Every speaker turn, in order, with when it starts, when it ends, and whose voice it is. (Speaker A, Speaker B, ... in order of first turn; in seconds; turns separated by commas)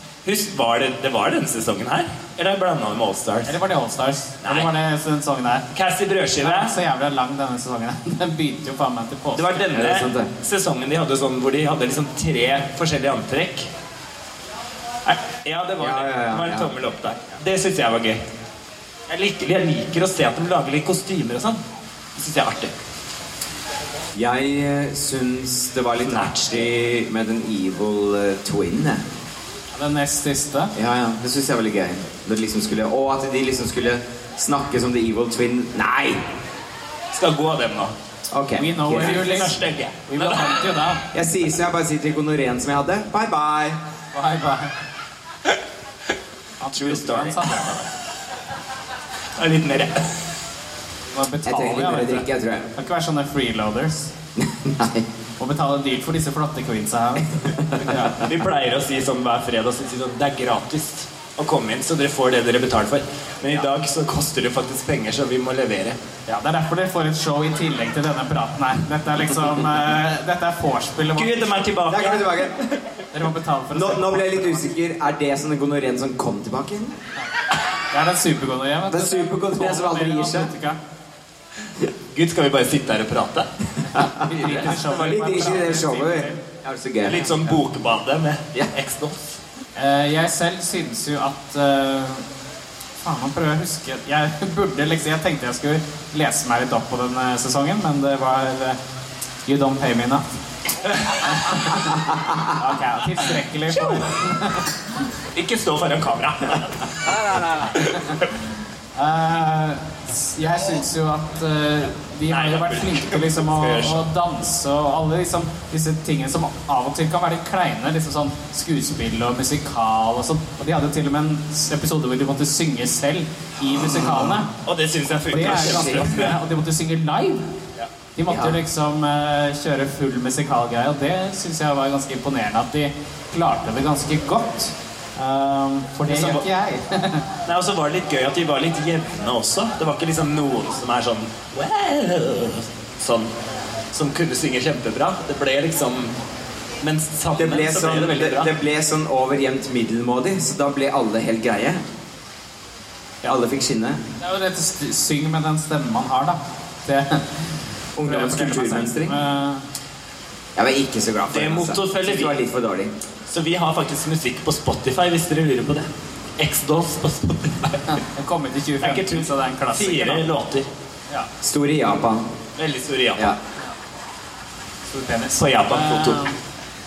Speaker A: 0.2-3.5, Speaker B: 3.4-5.6, Speaker A: 4.4-4.7, Speaker A: 5.7-6.7, Speaker B: 6.4-9.6, Speaker A: 9.3-13.7, Speaker C: 9.7-10.3, Speaker A: 15.1-18.2, Speaker C: 15.8-16.7, Speaker A: 19.1-21.6, Speaker A: 22.1-22.7, Speaker C: 24.1-29.0, Speaker A: 26.0-26.7, Speaker B: 29.7-30.7, Speaker C: 30.7-36.2, Speaker A: 37.1-37.9, Speaker C: 38.3-39.3, Speaker B: 38.5-39.5, Speaker A: 38.9-40.7, Speaker B: 40.1-41.0, Speaker C: 41.1-43.8, Speaker B: 44.1-44.7, Speaker B: 46.6-47.9, Speaker A: 46.7-47.6, Speaker A: 49.4-50.2, Speaker B: 51.1-54.1, Speaker C: 51.5-52.7, Speaker C: 54.4-55.0, Speaker B: 55.4-58.2, Speaker C: 57.4-57.8, Speaker A: 58.0-66.0, Speaker B: 66.3-71.5, Speaker A: 71.1-72.5, Speaker C: 71.9-72.7, Speaker B: 73.1-74.7, Speaker C: 73.7-77.0, Speaker B: 77.9-80.8, Speaker C: 78.9-80.5, Speaker A: 82.1-83.5, Speaker B: 83.9-86.4, Speaker C: 84.0-87.2, Speaker A: 84.4-85.3, Speaker A: 87.0-89.3, Speaker B: 89.8-92.2, Speaker B: 93.0-98.8, Speaker B: 99.5-100.2, Speaker B: 101.0-104.8, Speaker A: 103.7-104.2, Speaker A: 105.3-108.3, Speaker B: 109.0-124.5, Speaker A: 112.3-114.0, Speaker C: 123.7-124.3, Speaker A: 124.5-126.4, Speaker B: 125.3-127.5, Speaker C: 125.3-126.3, Speaker B: 128.2-137.3, Speaker C: 128.3-128.6, Speaker A: 136.1-136.4, Speaker A: 137.4-143.3, Speaker A: 143.9-146.1, Speaker A: 146.8-148.5, Speaker C: 147.3-151.8, Speaker C: 153.2-154.0, Speaker B: 154.2-159.6, Speaker C: 158.0-159.2, Speaker C: 160.6-162.9, Speaker A: 161.3-162.4, Speaker A: 163.3-168.0, Speaker B: 167.9-170.2, Speaker A: 168.8-170.7, Speaker C: 171.4-172.3, Speaker A: 172.6-173.3, Speaker B: 174.9-176.4, Speaker A: 175.4-176.2